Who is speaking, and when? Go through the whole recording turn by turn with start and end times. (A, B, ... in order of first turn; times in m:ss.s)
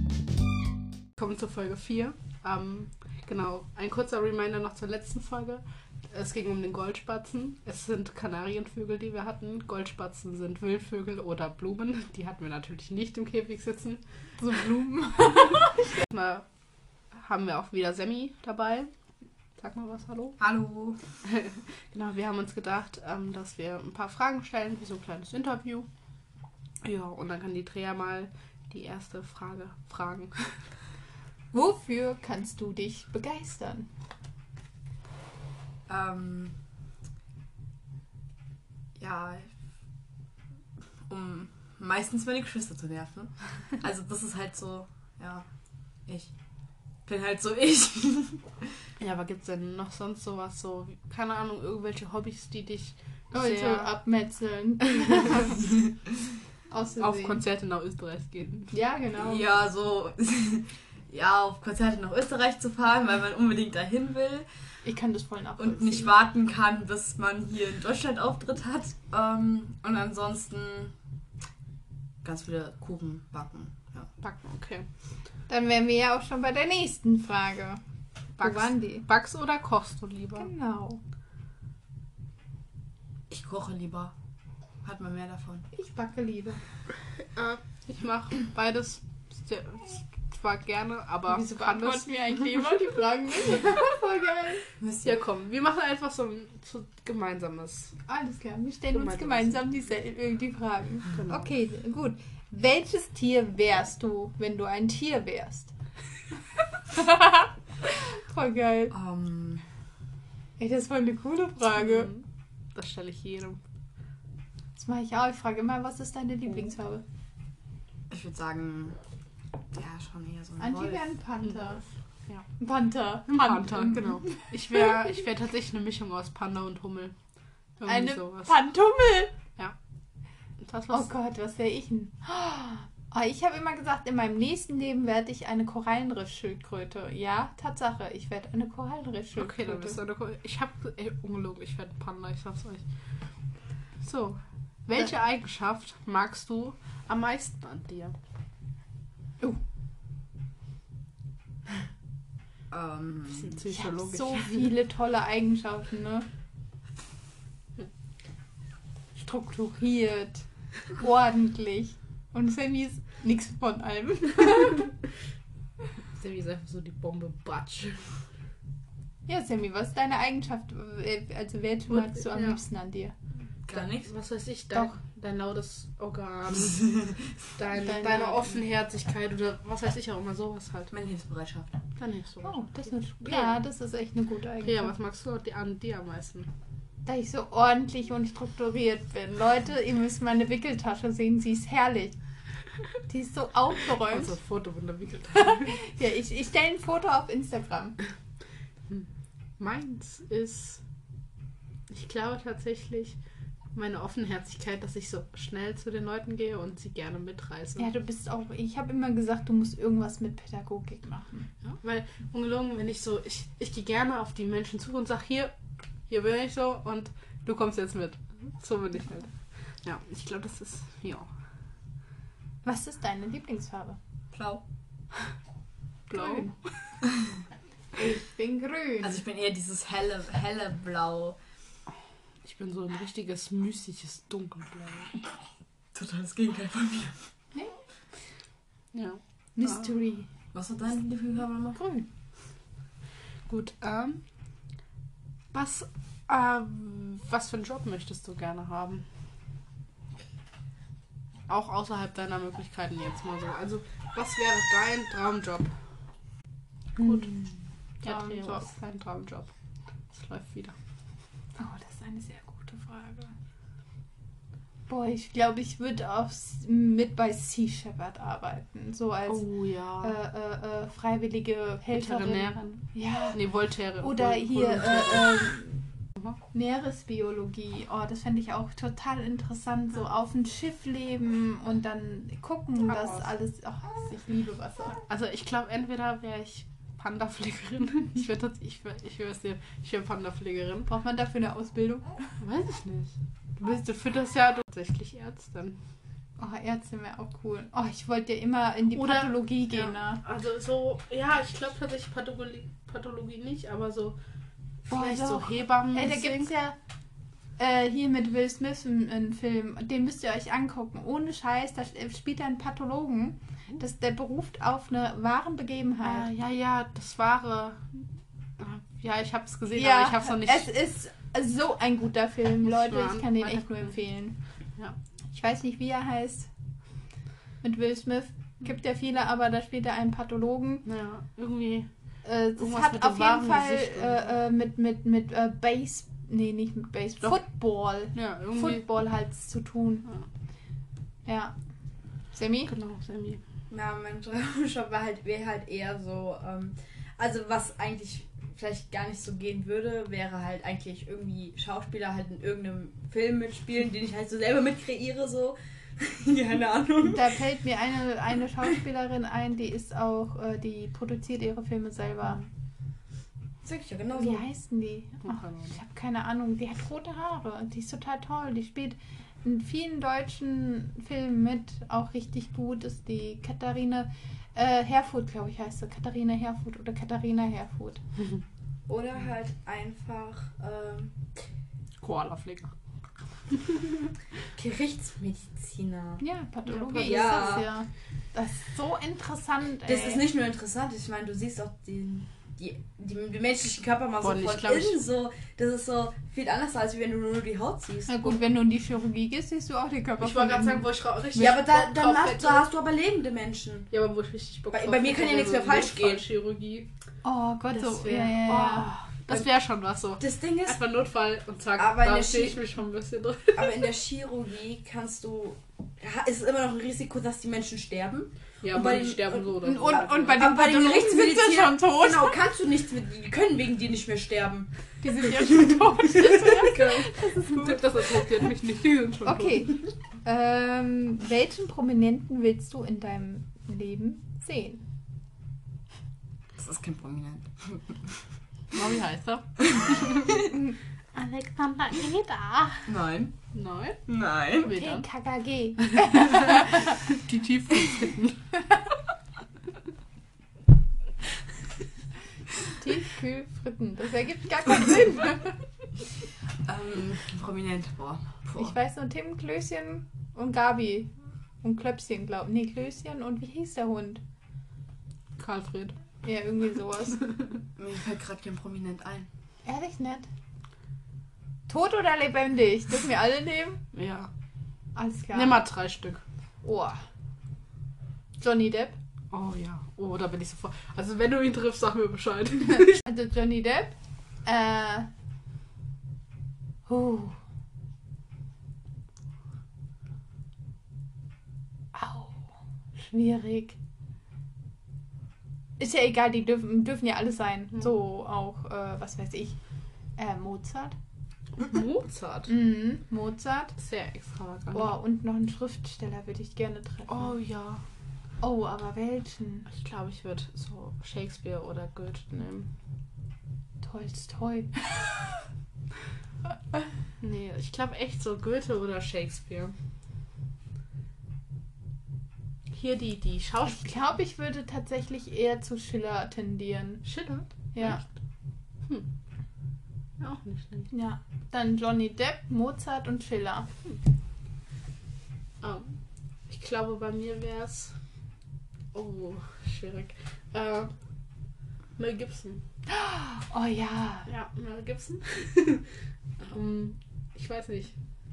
0:01.2-0:14.0 A
0:14.4-0:15.8 B
0:16.0-0:16.4 A
0:17.1-0:18.9 A
0:19.6-0:20.4 A
0:20.4-0:21.0 C
0:21.2-0:25.9 A
0:26.8-0:30.6 A
0:31.5-0:33.9 B
0:35.9-0:36.5 C
0:39.0-0:39.5 C
0:41.1-0:45.4 C
0:46.0-0:46.3 C
0:47.0-0:48.7 C
0:49.0-0:53.9 A
0:53.3-0:55.6 B
0:56.7-0:57.4 B
0:57.0-0:58.7 A
0:58.7-0:59.4 B
0:59.2-1:04.4 C
1:04.8-1:06.1 B
1:05.6-1:10.9 C
1:12.2-1:14.1 C
1:14.2-1:14.8 A
1:15.5-1:17.8 B
1:18.4-1:20.5 A
1:18.4-1:19.0 B
1:20.4-1:21.0 B
1:23.3-1:24.1 C
1:24.8-1:25.7 C
1:25.7-1:26.6 B
1:27.3-1:32.1 A
1:31.3-1:34.6 B
1:34.8-1:35.2 C
1:35.0-1:37.9 A
1:38.1-1:45.7 B
1:38.9-1:39.7 A
1:41.1-1:41.5 A
1:46.9-1:48.9 B
1:48.9-1:49.6 C
1:50.6-1:52.1 B
1:51.8-1:53.6 A
1:54.8-1:57.0 B
1:58.1-1:59.0 C
1:59.7-2:01.0 C
2:00.6-2:01.8 B
2:02.6-2:04.5 B
2:03.3-2:07.1 A
2:07.8-2:08.5 A
2:07.8-2:09.3 B
2:10.6-2:11.1 A
2:10.9-2:20.0 B
2:19.4-2:22.8 A
2:24.0-2:28.1 A
2:32.7-2:33.6 C
2:33.3-2:34.7 A
2:33.7-2:36.2 B
2:39.2-2:44.9 B
2:46.1-2:48.1 A
2:49.3-2:53.1 B
2:51.9-2:52.6 A
2:53.6-3:00.9 A
2:53.7-2:54.1 C
2:57.7-2:58.6 B
3:00.9-3:01.7 C
3:02.0-3:03.6 A
3:02.4-3:04.9 B
3:04.6-3:06.5 A
3:07.0-3:12.2 B
3:13.1-3:14.4 B
3:14.1-3:15.8 A
3:15.4-3:18.0 B
3:19.6-3:20.8 A
3:21.9-3:23.2 A
3:23.7-3:27.9 A
3:27.8-3:31.5 B
3:31.7-3:35.5 A
3:36.1-3:39.3 A
3:39.8-3:41.3 A
3:42.6-3:44.0 B
3:44.3-3:44.6 C
3:46.1-3:46.9 A
3:46.1-3:46.5 B
3:48.0-3:49.2 B
3:49.0-3:51.4 C
3:52.4-3:55.1 A
3:55.9-3:57.2 C
3:58.9-3:59.8 A
3:59.6-4:00.3 B
4:00.5-4:01.8 C
4:01.7-4:02.0 B
4:03.5-4:04.2 A
4:05.5-4:09.0 A
4:11.5-4:15.7 A
4:17.0-4:18.7 B
4:17.0-4:17.3 A
4:18.0-4:19.5 A
4:20.1-4:20.7 A
4:21.6-4:23.3 B
4:24.9-4:29.5 B
4:29.3-4:30.1 A
4:30.0-4:33.4 B
4:31.9-4:35.5 A
4:34.0-4:35.8 B
4:36.5-4:45.0 B
4:42.8-4:43.2 A
4:45.1-4:50.9 A
4:50.9-4:52.3 B
4:52.4-4:55.8 A
4:56.4-5:00.2 B
4:58.9-5:04.2 A
5:04.9-5:06.5 A
5:04.9-5:06.8 B
5:07.6-5:16.3 B
5:16.0-5:18.0 A
5:18.6-5:20.7 A
5:19.7-5:24.4 B
5:22.6-5:23.9 A
5:25.3-5:26.5 B
5:27.6-5:30.8 B
5:30.8-5:31.9 A
5:32.2-5:40.0 B
5:32.6-5:34.2 A
5:38.1-5:38.8 A
5:41.2-5:41.5 B
5:42.3-5:42.7 B
5:42.7-5:43.4 A
5:43.7-5:57.3 C
5:57.0-6:02.4 B
6:03.6-6:04.4 C
6:04.2-6:18.0 B
6:05.2-6:05.7 A
6:18.9-6:21.1 C
6:22.0-6:22.7 A
6:23.5-6:23.9 A
6:24.6-6:26.2 C
6:26.2-6:30.2 B
6:26.7-6:27.2 A
6:27.0-6:27.7 C
6:29.8-6:38.4 C
6:34.2-6:35.0 A
6:38.1-6:41.5 B
6:40.2-6:42.7 A
6:41.4-6:43.9 C
6:43.9-6:46.9 A
6:44.7-6:46.2 C
6:47.2-6:48.9 B
6:47.7-6:53.8 A
6:50.2-6:50.8 C
6:51.8-6:52.6 C
6:53.5-7:04.7 C
6:58.6-7:00.4 A
6:59.6-7:02.4 B
7:05.0-7:08.4 B
7:05.7-7:07.1 C
7:07.4-7:09.7 A
7:09.2-7:14.8 B
7:16.6-7:18.1 C
7:18.7-7:20.5 A
7:21.1-7:22.8 A
7:22.8-7:23.3 C
7:23.5-7:25.0 A
7:24.1-7:24.7 C
7:24.7-7:27.0 B
7:25.8-7:28.4 A
7:32.7-7:35.5 B
7:36.6-7:38.7 C
7:38.6-7:41.1 B
7:41.6-7:44.2 B
7:45.4-7:46.0 A
7:46.2-7:47.2 B
7:47.8-7:49.3 C
7:49.6-7:50.3 B
7:51.7-7:53.8 B
7:53.9-7:54.3 A
7:55.0-7:55.6 B
7:55.3-7:56.2 A
7:56.6-7:57.0 B
7:58.4-7:59.0 B
7:59.3-8:03.0 A
8:03.0-8:05.1 B
8:06.9-8:07.4 B
8:11.9-8:13.8 B
8:15.8-8:19.6 B
8:20.2-8:21.0 B
8:21.6-8:22.5 A
8:22.5-8:23.7 B
8:23.8-8:24.9 A
8:24.7-8:27.3 B
8:27.1-8:27.8 A
8:28.4-8:29.7 B
8:29.7-8:32.7 A
8:33.8-8:35.1 B
8:37.2-8:39.7 A
8:42.7-8:43.9 A
8:43.7-8:47.0 B
8:47.0-8:48.0 A
8:47.7-8:48.0 B
8:50.2-8:50.9 A
8:50.9-8:53.7 B
8:55.6-8:56.0 A
8:56.5-8:57.9 A
8:58.9-9:00.9 A
9:02.0-9:02.6 A
9:02.9-9:04.3 B
9:04.3-9:05.9 A
9:06.4-9:07.9 A